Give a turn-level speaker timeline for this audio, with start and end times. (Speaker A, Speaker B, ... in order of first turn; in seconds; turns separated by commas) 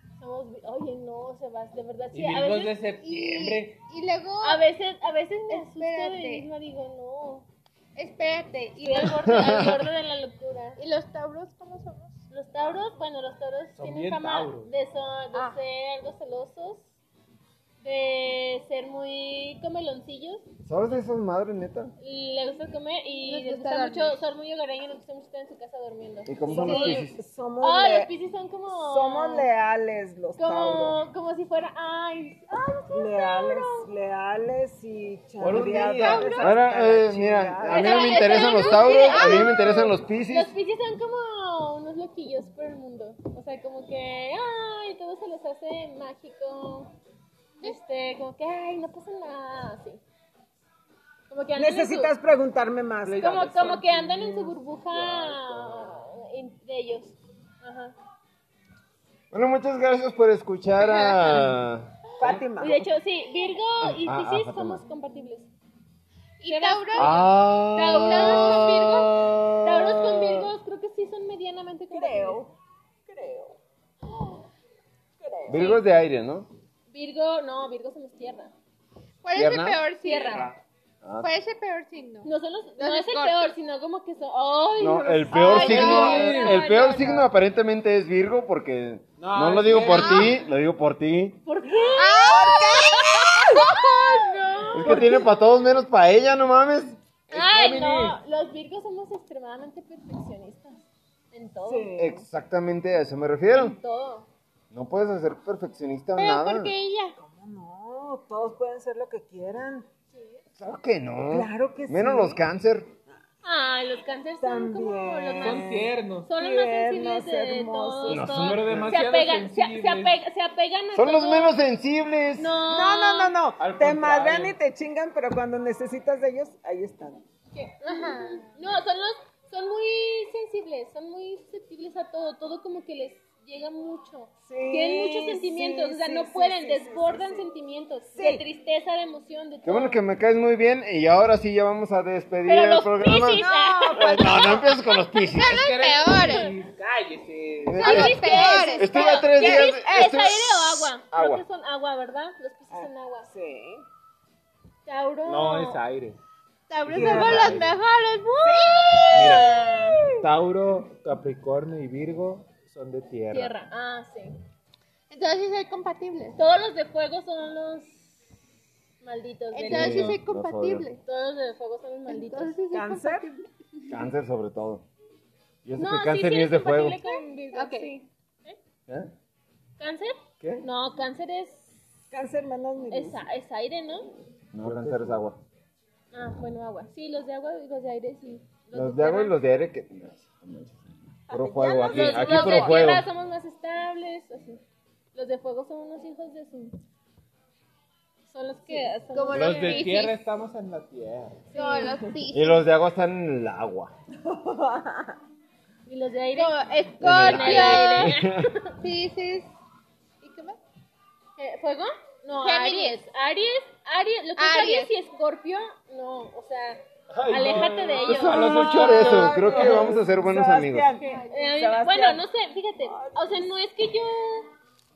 Speaker A: 0.2-2.8, Speaker B: 2.1-3.8, Speaker C: 3.0-4.7, Speaker A: 4.4-7.5, Speaker C: 5.5-6.5, Speaker C: 8.0-9.3, Speaker A: 8.8-10.8, Speaker D: 9.2-9.8, Speaker C: 10.8-12.2, Speaker A: 12.3-16.9, Speaker B: 13.8-14.7, Speaker C: 15.3-15.6, Speaker A: 17.8-20.4, Speaker D: 20.6-21.9, Speaker A: 22.0-29.5, Speaker C: 23.3-24.2, Speaker D: 26.3-27.2, Speaker E: 26.5-28.1, Speaker C: 26.6-26.9, Speaker E: 28.7-31.0, Speaker A: 30.4-33.9, Speaker E: 32.9-38.1, Speaker D: 35.4-40.5, Speaker C: 36.0-36.5, Speaker A: 37.7-46.9, Speaker C: 38.0-39.7, Speaker A: 47.6-50.0, Speaker A: 51.3-52.1, Speaker E: 51.6-54.1, Speaker B: 53.0-56.0, Speaker A: 53.2-58.0, Speaker D: 59.3-62.0, Speaker C: 61.0-61.4, Speaker E: 62.2-62.9, Speaker A: 62.6-65.5, Speaker D: 63.8-64.8, Speaker C: 66.4-69.2, Speaker A: 66.5-68.8, Speaker D: 66.9-70.5, Speaker A: 69.6-72.4, Speaker E: 71.9-73.6, Speaker E: 75.2-75.8, Speaker D: 75.5-76.5, Speaker A: 75.5-75.8, Speaker A: 76.9-78.5, Speaker C: 79.2-80.5, Speaker D: 79.3-79.9, Speaker A: 80.0-80.5, Speaker D: 81.0-81.3, Speaker C: 81.2-83.6, Speaker A: 82.2-87.3, Speaker D: 84.8-91.4, Speaker B: 85.5-86.6, Speaker B: 89.2-90.3, Speaker C: 89.9-90.3, Speaker A: 91.5-95.2, Speaker E: 91.8-93.7, Speaker C: 92.0-94.7, Speaker D: 94.7-98.0, Speaker A: 97.3-102.0, Speaker B: 97.7-98.0, Speaker E: 101.6-102.3, Speaker D: 102.0-103.8, Speaker A: 103.5-104.3, Speaker D: 104.7-106.7, Speaker C: 106.2-107.2, Speaker E: 107.2-109.9, Speaker A: 110.1-110.4, Speaker D: 110.6-112.9, Speaker E: 111.3-112.4, Speaker A: 113.4-115.7, Speaker E: 114.4-118.3, Speaker B: 115.4-116.3, Speaker A: 116.3-121.6, Speaker D: 118.1-118.9, Speaker B: 118.4-120.2, Speaker D: 120.9-122.6, Speaker A: 122.4-123.3, Speaker E: 122.7-127.2, Speaker B: 123.6-124.6, Speaker A: 127.5-140.0, Speaker C: 127.8-128.6, Speaker E: 134.4-137.5, Speaker E: 138.1-138.4, Speaker D: 139.7-145.7, Speaker A: 142.4-145.0, Speaker C: 143.4-146.5, Speaker B: 145.4-148.3, Speaker A: 146.2-146.5, Speaker D: 147.6-151.4, Speaker C: 147.8-149.7, Speaker A: 147.8-153.3, Speaker E: 152.7-153.9, Speaker A: 154.9-155.8, Speaker B: 155.2-156.2, Speaker C: 156.7-159.8, Speaker E: 156.8-157.7, Speaker B: 156.9-157.8, Speaker E: 158.4-160.3, Speaker A: 159.1-160.0, Speaker B: 159.1-159.6, Speaker B: 160.2-163.5, Speaker A: 163.3-164.4, Speaker C: 165.1-166.4, Speaker A: 166.4-168.2, Speaker A: 169.0-170.2, Speaker C: 169.5-171.0, Speaker D: 169.7-170.9, Speaker A: 171.0-172.6, Speaker C: 172.1-173.9, Speaker E: 172.7-173.3, Speaker D: 173.9-174.9, Speaker D: 175.7-177.0, Speaker A: 175.8-178.6, Speaker C: 177.1-178.0, Speaker D: 178.9-179.1, Speaker A: 179.8-181.8, Speaker D: 180.4-180.7, Speaker E: 182.1-183.2, Speaker A: 182.9-184.1, Speaker D: 184.5-185.4, Speaker E: 184.6-185.2, Speaker A: 186.1-189.3, Speaker D: 188.7-193.1, Speaker E: 191.3-191.9, Speaker C: 191.5-193.0, Speaker A: 191.8-194.6, Speaker A: 195.1-196.8, Speaker A: 198.3-199.9, Speaker C: 198.7-200.2, Speaker B: 199.3-201.5, Speaker A: 201.5-202.0, Speaker C: 201.5-202.7, Speaker D: 202.3-203.9, Speaker E: 204.2-205.2, Speaker A: 205.9-208.8, Speaker C: 206.4-208.1, Speaker D: 207.0-208.5, Speaker C: 208.8-209.5, Speaker C: 210.2-210.6, Speaker A: 211.4-219.8, Speaker C: 212.3-213.0, Speaker C: 214.4-214.9, Speaker B: 217.1-219.9, Speaker D: 218.0-220.9, Speaker E: 218.9-222.3, Speaker A: 221.0-224.5, Speaker C: 221.0-221.3, Speaker E: 222.8-223.5